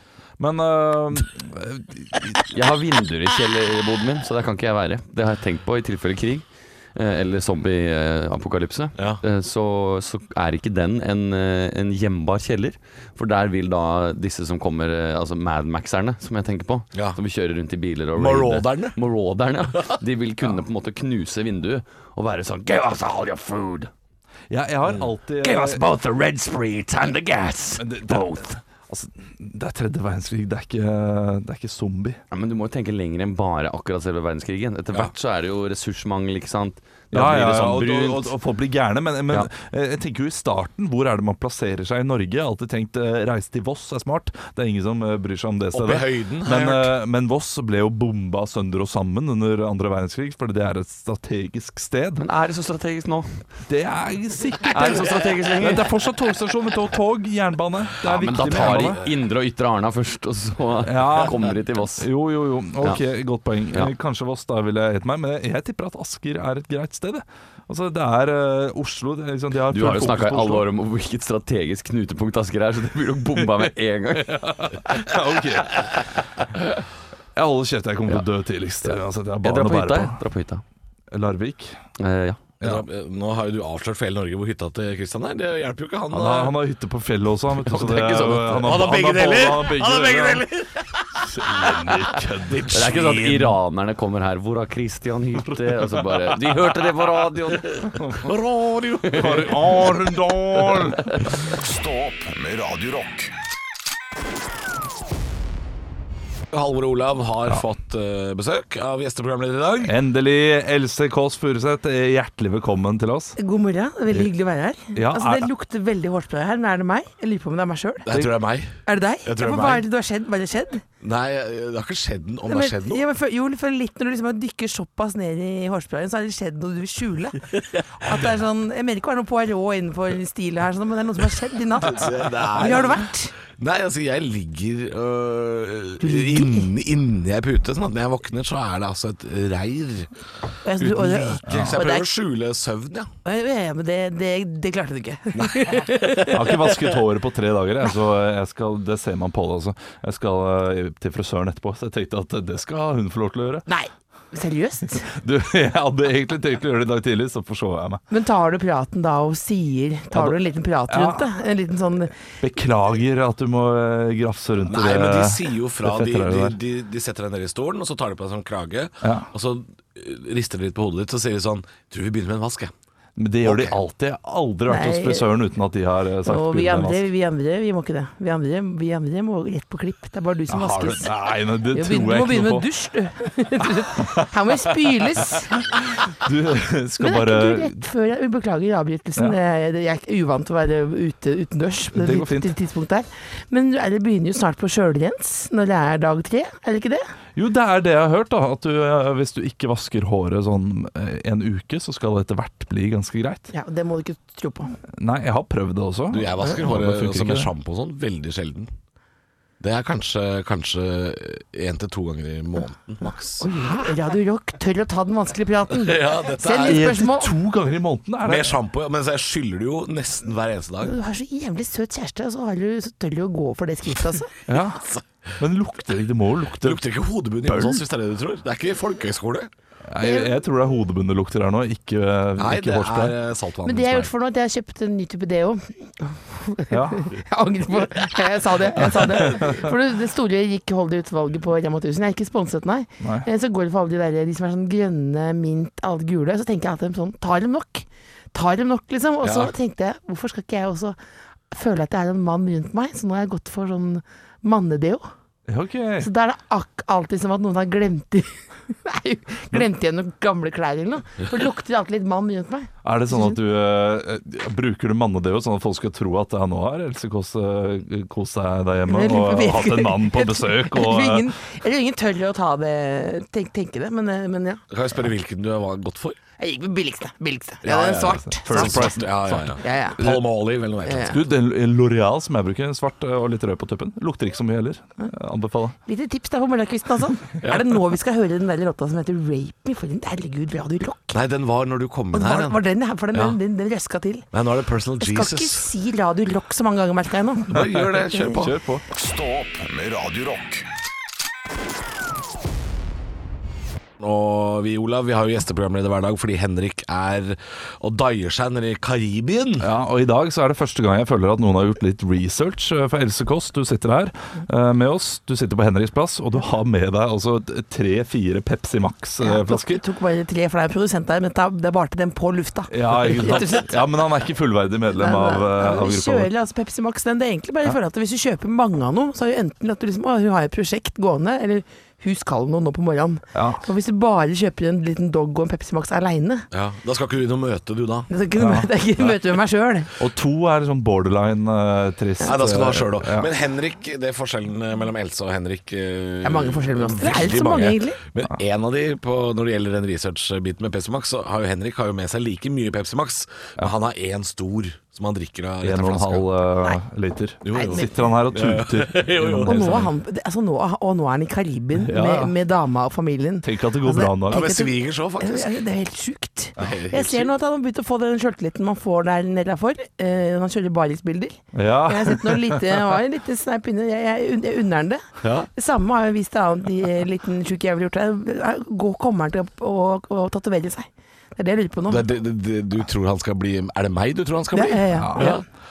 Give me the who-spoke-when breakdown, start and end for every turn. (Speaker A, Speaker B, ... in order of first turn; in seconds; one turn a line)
Speaker A: 0.4-2.4
Speaker B: 2.5-23.9
Speaker C: 18.1-18.9
Speaker A: 24.5-25.8
Speaker B: 25.4-28.6
Speaker A: 27.8-32.2
Speaker B: 32.3-38.3
Speaker A: 37.1-52.2
Speaker C: 45.7-46.9
Speaker B: 52.2-53.5
Speaker A: 53.7-59.0
Speaker B: 54.7-55.9
Speaker B: 58.0-62.1
Speaker C: 58.4-59.1
Speaker A: 60.8-70.7
Speaker B: 69.7-75.0
Speaker A: 74.2-76.0
Speaker A: 77.3-80.2
Speaker B: 78.8-80.6
Speaker A: 81.1-81.8
Speaker B: 82.0-82.4
Speaker A: 82.6-82.8
Speaker C: 82.6-86.5
Speaker A: 86.1-90.5
Speaker B: 87.6-88.8
Speaker C: 88.6-91.9
Speaker A: 91.2-92.9
Speaker C: 92.4-93.5
Speaker B: 92.7-98.1
Speaker A: 95.7-96.5
Speaker C: 98.2-99.6
Speaker B: 99.1-99.5
Speaker A: 99.1-101.2
Speaker D: 101.5-103.3
Speaker C: 106.5-109.9
Speaker A: 109.8-113.4
Speaker E: 113.4-118.1
Speaker A: 114.9-115.5
Speaker C: 118.0-119.8
Speaker E: 118.8-120.8
Speaker C: 121.0-123.0
Speaker E: 122.5-127.4
Speaker E: 128.0-133.3
Speaker C: 131.8-140.1
Speaker E: 136.0-136.7
Speaker E: 140.6-142.1
Speaker C: 140.8-143.1
Speaker A: 141.4-141.8
Speaker E: 143.2-146.6
Speaker C: 145.3-145.9
Speaker A: 146.3-153.6
Speaker E: 153.7-155.1
Speaker A: 155.1-158.0
Speaker E: 158.1-162.1
Speaker A: 160.1-161.3
Speaker A: 162.4-166.6
Speaker C: 164.7-172.7
Speaker A: 169.0-169.3
Speaker A: 173.2-177.1
Speaker C: 173.4-173.8
Speaker E: 174.7-175.3
Speaker E: 176.2-181.1
Speaker A: 180.5-182.7
Speaker E: 181.7-185.5
Speaker A: 185.8-187.8
Speaker E: 187.0-197.0
Speaker A: 191.9-192.5
Speaker A: 197.3-203.5
Speaker E: 203.5-204.7
Speaker A: 204.9-207.5
Speaker C: 206.1-208.7
Speaker C: 209.6-213.5
Speaker E: 213.4-217.3
Speaker C: 215.8-216.9
Speaker A: 216.6-218.6
Speaker C: 218.2-220.9
Speaker E: 220.8-224.3
Speaker A: 224.5-224.8
Speaker A: 225.4-226.8
Speaker C: 226.6-229.5
Speaker A: 227.4-227.8
Speaker A: 229.9-233.2
Speaker E: 230.0-230.4
Speaker C: 232.4-234.1
Speaker E: 233.6-250.9
Speaker A: 236.7-237.1
Speaker A: 238.8-239.7
Speaker A: 243.0-243.3
Speaker C: 249.2-249.5
Speaker E: 251.5-255.0
Speaker A: 255.5-256.1
Speaker E: 256.0-263.4
Speaker A: 262.8-271.3
Speaker E: 268.9-274.6
Speaker C: 274.7-276.2
Speaker E: 276.4-280.1
Speaker C: 277.6-281.1
Speaker A: 278.3-280.2
Speaker E: 280.8-281.2
Speaker A: 281.0-285.8
Speaker E: 285.9-291.2
Speaker C: 287.4-287.8
Speaker C: 291.1-292.6
Speaker E: 292.1-294.3
Speaker C: 293.1-293.4
Speaker C: 294.3-295.7
Speaker E: 295.0-298.4
Speaker C: 297.5-298.6
Speaker A: 297.5-298.8
Speaker D: 298.9-300.6
Speaker C: 304.0-309.7
Speaker A: 309.6-319.8
Speaker E: 319.2-324.0
Speaker A: 322.7-326.3
Speaker E: 324.9-336.4
Speaker A: 333.3-333.6
Speaker C: 336.5-338.1
Speaker E: 338.1-339.9
Speaker A: 338.4-338.7
Speaker A: 340.0-343.3
Speaker C: 342.2-356.3
Speaker E: 346.2-348.0
Speaker A: 355.6-359.9
Speaker C: 357.4-359.9
Speaker E: 357.5-358.2
Speaker E: 359.4-375.0
Speaker A: 361.8-362.3
Speaker A: 363.4-364.5
Speaker C: 364.3-365.6
Speaker C: 366.6-367.3
Speaker A: 371.5-372.8
Speaker C: 375.2-375.5
Speaker E: 375.5-382.0
Speaker C: 381.9-385.4
Speaker E: 384.5-385.4
Speaker A: 384.9-385.3